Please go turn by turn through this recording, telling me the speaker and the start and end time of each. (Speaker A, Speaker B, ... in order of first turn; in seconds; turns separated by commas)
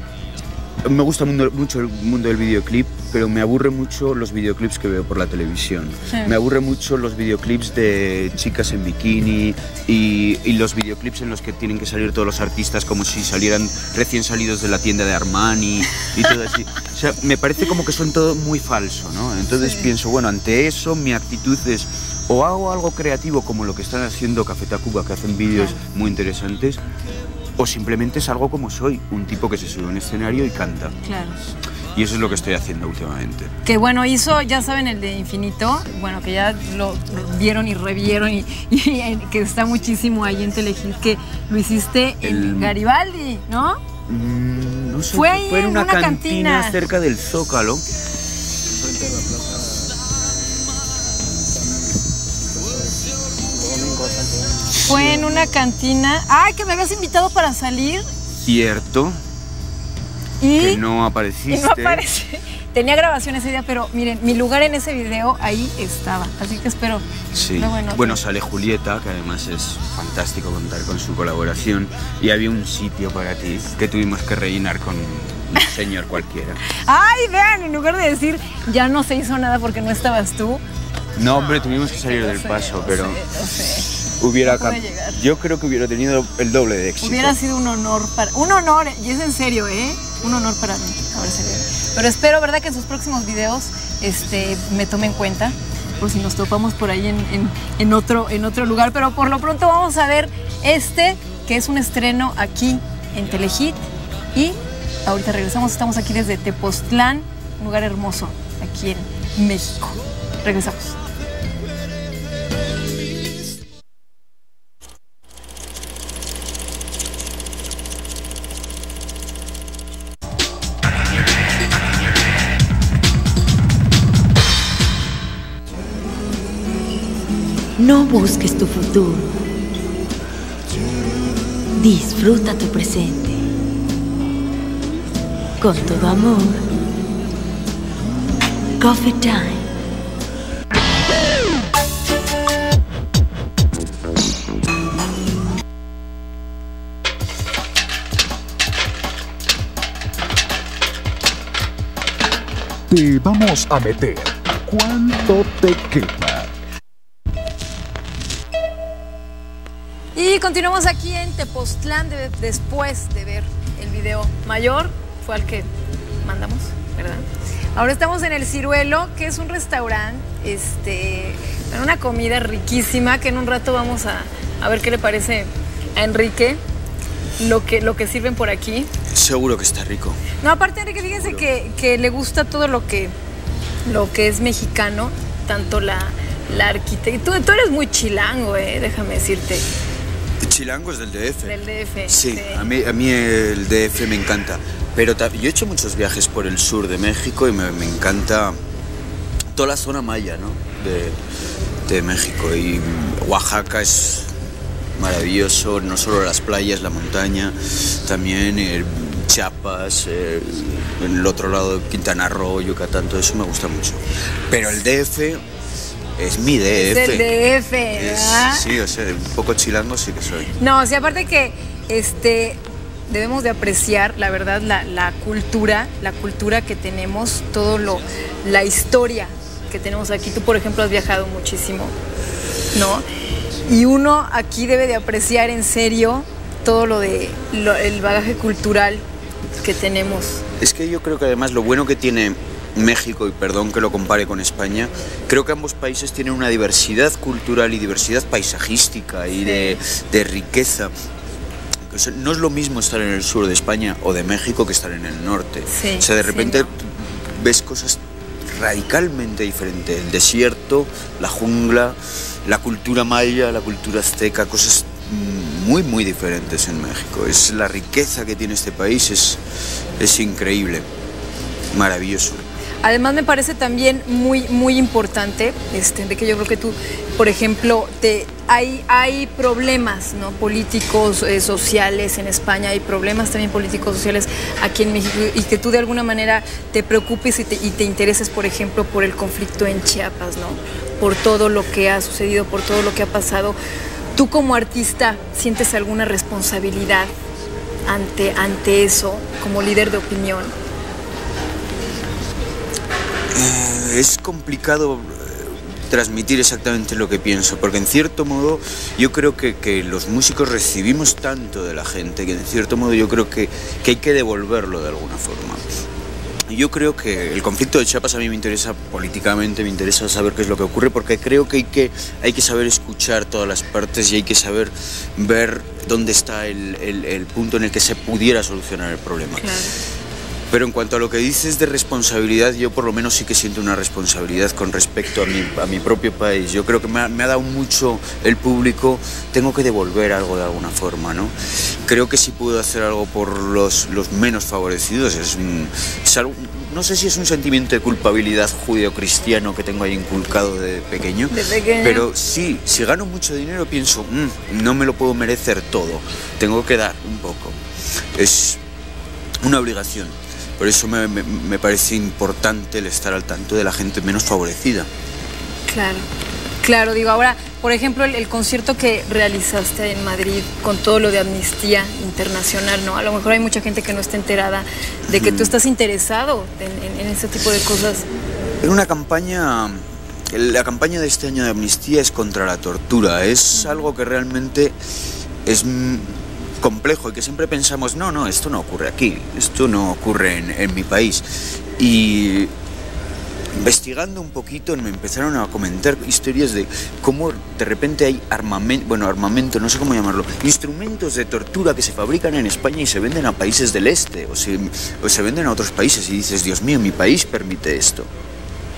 Speaker A: 0.8-26.8, Speaker A: 27.6-31.0, Speaker B: 31.0-31.4, Speaker A: 31.9-33.5, Speaker B: 33.6-43.8, Speaker A: 42.2-42.8, Speaker A: 44.1-47.8, Speaker B: 45.1-46.8, Speaker B: 54.8-58.1, Speaker A: 54.9-55.2, Speaker A: 58.4-59.2, Speaker B: 60.4-60.8, Speaker A: 60.6-62.0, Speaker B: 61.5-68.2, Speaker A: 67.3-76.6, Speaker B: 76.7-80.6, Speaker A: 81.2-83.2, Speaker B: 82.0-85.2, Speaker A: 84.1-87.4, Speaker B: 87.0-103.8, Speaker B: 104.3-111.0, Speaker C: 127.8-129.4, Speaker C: 131.8-133.5, Speaker C: 135.6-136.6, Speaker C: 138.8-139.7, Speaker D: 152.9-156.5, Speaker B: 160.2-165.7, Speaker B: 166.2-167.2, Speaker B: 167.8-176.6, Speaker B: 177.4-178.9, Speaker A: 179.1-180.2, Speaker B: 180.4-183.2, Speaker A: 181.2-181.4, Speaker B: 183.9-189.7, Speaker A: 190.4-198.6, Speaker B: 191.5-192.7, Speaker A: 199.5-201.2, Speaker A: 201.9-204.3, Speaker A: 205.0-215.4, Speaker A: 216.2-217.4, Speaker B: 216.8-218.8, Speaker A: 217.9-220.5, Speaker B: 220.6-231.9, Speaker B: 232.7-233.1, Speaker B: 233.7-239.0, Speaker B: 239.6-240.4, Speaker A: 240.6-250.9, Speaker B: 249.4-249.8, Speaker A: 251.8-269.4, Speaker B: 255.7-256.7, Speaker A: 270.0-270.9, Speaker A: 271.7-272.4, Speaker B: 272.8-293.6, Speaker B: 294.1-297.1, Speaker B: 297.9-300.5, Speaker A: 303.3-315.6, Speaker A: 316.5-329.6, Speaker B: 329.3-329.8, Speaker A: 330.5-357.6, Speaker B: 351.3-352.1, Speaker A: 358.1-358.6, Speaker A: 359.4-364.9, Speaker B: 365.7-366.1, Speaker B: 366.6-378.1, Speaker A: 375.1-375.6, Speaker A: 378.6-384.8, Speaker A: 385.4-392.5, Speaker A: 393.5-408.1